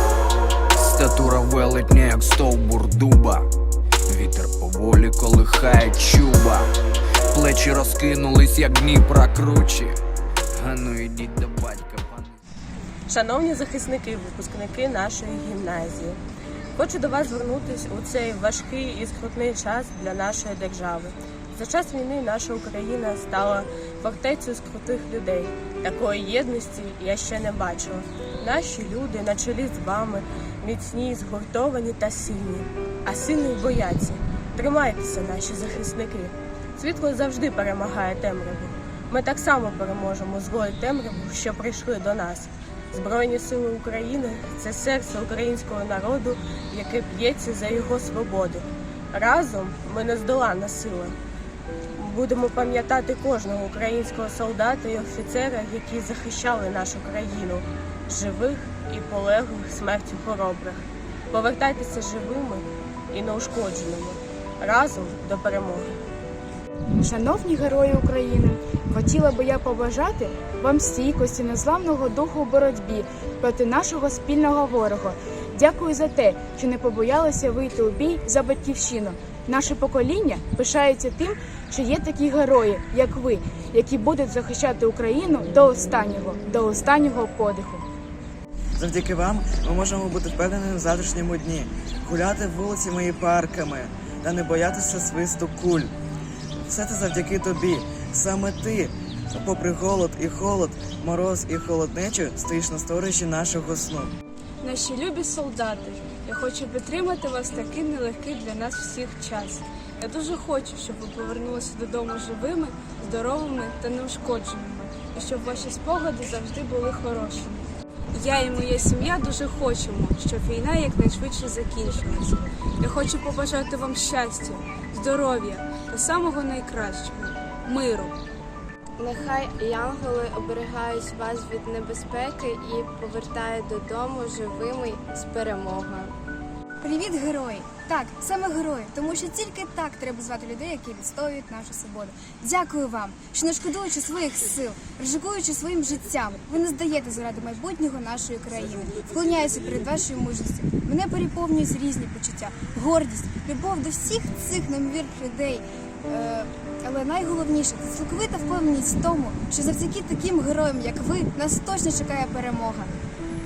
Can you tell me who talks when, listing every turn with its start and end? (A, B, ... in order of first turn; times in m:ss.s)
0:00.8-0:03.5 A
0:04.1-0:06.7 A
0:07.3-0:10.0 A
0:10.5-0:12.3 A
0:13.1-0:16.2 B
0:16.8-0:51.2 B
0:52.0-1:05.9 B
1:07.0-1:27.8 C
1:28.8-1:35.9 D
1:36.7-1:44.1 D
1:44.6-2:08.1 E
2:09.0-2:16.1 F
2:16.8-2:42.9 G